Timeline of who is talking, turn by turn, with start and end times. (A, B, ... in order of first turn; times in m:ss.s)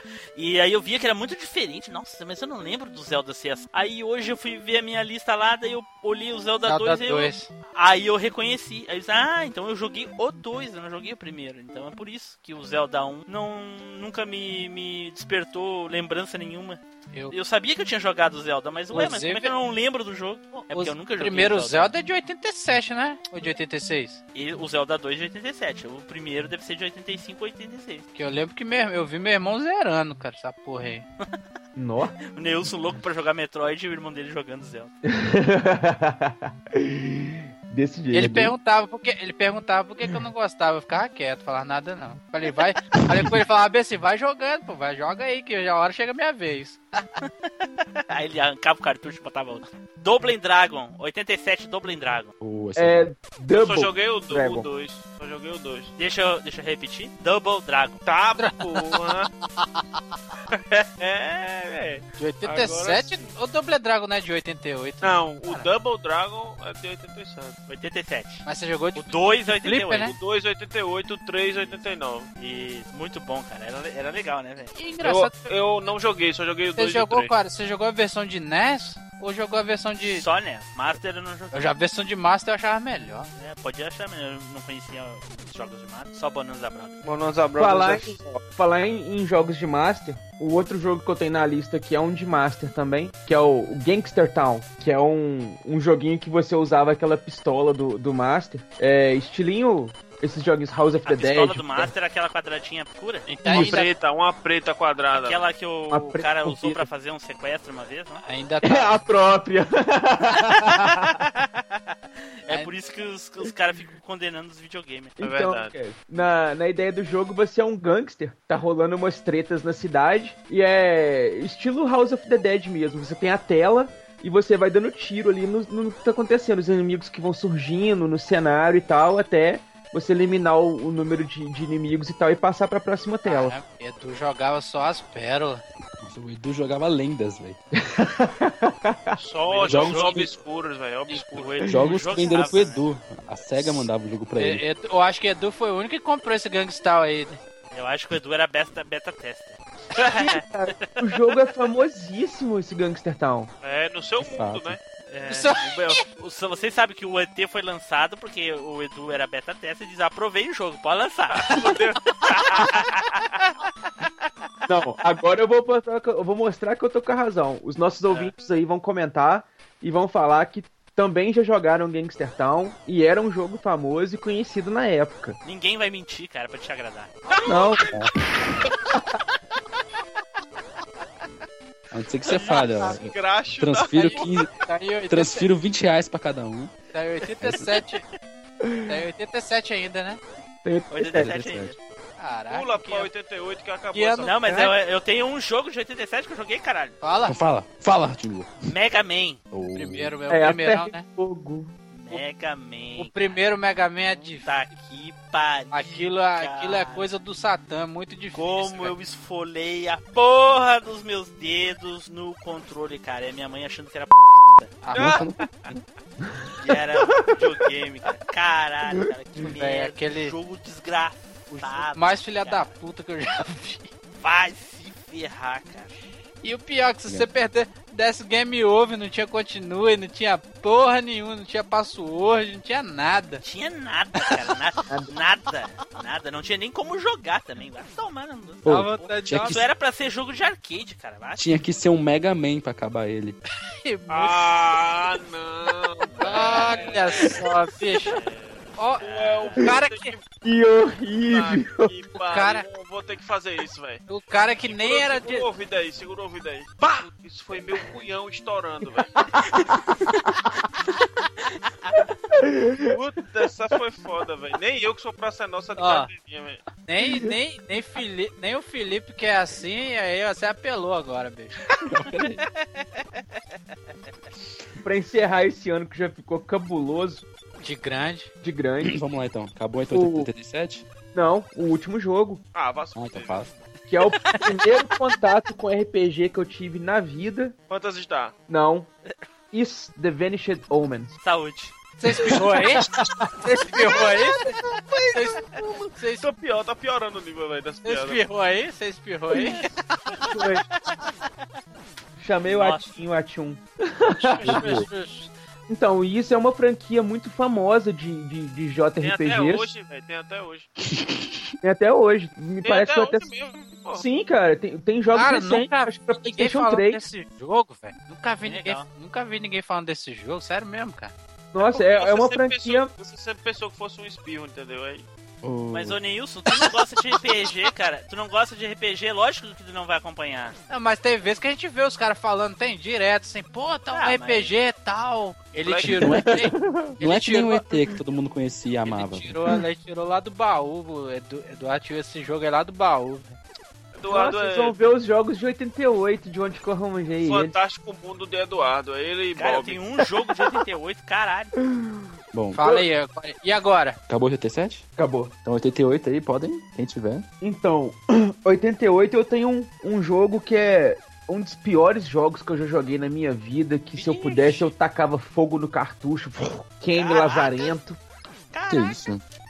0:00.4-0:21.9 A
0:06.7-0:07.5 B
0:18.9-0:19.5 B
0:20.7-0:24.2 B
0:24.4-0:28.1 A
0:28.2-0:31.1 B
0:31.8-0:32.2 C
0:32.3-0:34.9 A
0:35.1-0:38.5 C
0:38.1-0:46.8 B
0:47.2-0:52.3 A
0:52.4-0:53.1 D
0:52.8-0:54.7 C
0:53.6-0:55.9 E
0:56.0-0:58.0 A
0:58.0-0:59.3 E
0:58.4-0:59.0 B
1:00.5-1:03.3 E
1:02.2-1:05.7 B
1:05.0-1:07.6 E
1:07.7-1:08.4 A
1:08.4-1:10.2 B
1:09.0-1:10.2 A
1:10.1-1:12.3 E
1:11.6-1:11.8 A
1:12.4-1:14.7 A
1:14.8-1:15.5 B
1:15.0-1:17.3 E
1:16.8-1:20.2 B
1:20.0-1:21.7 A
1:21.5-1:23.3 B
1:23.4-1:27.0 A
1:27.0-1:28.4 E
1:27.6-1:41.9 C
1:41.0-1:43.8 A
1:43.3-1:45.4 E
1:43.3-1:43.9 B
1:43.5-1:43.8 C
1:45.1-1:48.2 A
1:45.9-1:46.9 C
1:48.2-1:48.9 B
1:48.6-1:51.2 C
1:51.2-1:51.8 A
1:52.4-1:55.2 A
1:55.2-2:13.6 C
1:55.2-1:55.8 E
2:13.2-2:15.6 B
2:16.0-2:17.6 D
2:17.8-2:19.2 C
2:19.2-2:21.6 E
2:19.4-2:20.3 A
2:19.7-2:20.3 D
2:21.1-2:22.9 A
2:21.7-2:24.6 D
2:24.4-2:27.4 B
2:27.7-2:31.0 A
2:30.0-2:33.5 C
2:33.6-2:34.8 E
2:34.2-2:34.8 D
2:35.1-2:41.6 A
2:35.3-2:36.0 B
2:41.3-2:42.7 E
2:42.2-2:43.2 A
2:44.7-2:55.4 C
2:48.1-2:48.3 A
2:55.4-2:57.2 A
2:57.4-2:57.9 C
2:58.7-2:59.0 C
3:01.9-3:04.5 D
3:02.3-3:02.9 A
3:02.6-3:04.3 E
3:04.5-3:05.5 B
3:05.1-3:06.8 D
3:06.9-3:08.0 B
3:07.4-3:07.8 D
3:08.6-3:09.0 C
3:08.9-3:10.2 B
3:10.6-3:11.3 C
3:10.9-3:11.8 A
3:11.1-3:11.8 D
3:12.2-3:13.1 B
3:12.5-3:14.3 E
3:13.9-3:14.7 B
3:14.2-3:17.0 A
3:17.0-3:17.4 B
3:17.3-3:18.6 D
3:18.7-3:19.4 A
3:19.5-3:20.1 D
3:19.8-3:21.1 B
3:20.3-3:21.7 C
3:21.9-3:23.4 A
3:23.0-3:24.5 B
3:24.2-3:27.1 A
3:25.7-3:29.0 B
3:28.3-3:34.8 A
3:34.8-3:35.2 B
3:34.9-3:35.3 E
3:34.9-3:35.8 D
3:36.2-3:36.7 C
3:36.6-3:42.7 A
3:39.4-3:40.4 B
3:41.5-3:43.9 B
3:44.2-3:46.0 A
3:46.4-3:53.4 B
3:53.4-4:01.4 A
3:58.6-3:59.6 D
3:58.7-3:59.6 B
4:01.4-4:03.4 D
4:03.6-4:04.6 B
4:04.1-4:07.4 E
4:06.1-4:07.2 A
4:06.2-4:08.2 B
4:08.1-4:10.3 E
4:08.2-4:09.5 A
4:08.8-4:10.1 B
4:10.4-4:11.9 C
4:11.2-4:14.1 E
4:12.2-4:12.7 B
4:14.1-4:15.5 B
4:14.6-4:19.1 E
4:16.8-4:17.1 B
4:19.2-4:19.7 C
4:22.3-4:22.9 C
4:22.9-4:26.6 E
4:25.8-4:26.1 B
4:26.8-4:31.6 B
4:27.0-4:27.3 C
4:31.9-4:32.4 D
4:34.8-4:37.2 C
4:37.6-4:38.3 B
4:38.4-4:39.0 C
4:38.8-4:40.9 D
4:39.9-4:40.3 C
4:41.1-4:42.4 C
4:42.5-4:43.5 E
4:43.0-4:43.5 D
4:43.9-4:47.6 C
4:47.7-4:48.4 E
4:48.5-4:48.9 C
4:49.5-4:51.2 C
4:51.2-4:52.3 A
4:52.0-4:52.9 B
4:52.2-4:53.9 C
4:53.4-4:54.6 B
4:53.8-4:54.0 A
4:55.1-4:56.3 B
4:56.2-4:58.2 E
4:57.8-5:00.2 B
5:00.3-5:00.6 C
5:02.2-5:04.9 C
5:02.4-5:03.0 A
5:04.2-5:05.3 B
5:04.5-5:04.8 D
5:05.7-5:09.7 C
5:09.0-5:10.7 E
5:11.6-5:13.3 C
5:12.6-5:14.0 E
5:14.0-5:17.0 C
5:15.1-5:21.1 B
5:18.4-5:18.9 A
5:21.5-5:22.9 C
5:21.6-5:25.1 E
5:25.4-5:26.0 D
5:25.7-5:30.6 A
5:30.7-5:37.7 B
5:33.9-5:34.5 A
5:35.6-5:36.0 E
5:35.8-5:39.4 D
5:36.1-5:36.8 C
5:38.8-5:43.4 B
5:44.0-5:44.8 E
5:44.1-5:47.6 C
5:47.2-5:49.8 E
5:49.4-5:51.5 A
5:51.8-5:52.1 C
5:52.3-5:52.7 D
5:52.5-5:54.0 B
5:54.1-5:54.9 D
5:55.0-5:55.3 C
5:55.4-5:57.3 D
5:57.4-6:08.0 C
6:04.0-6:04.7 B
6:06.9-6:07.7 A
6:08.5-6:09.0 A
6:08.7-6:09.2 D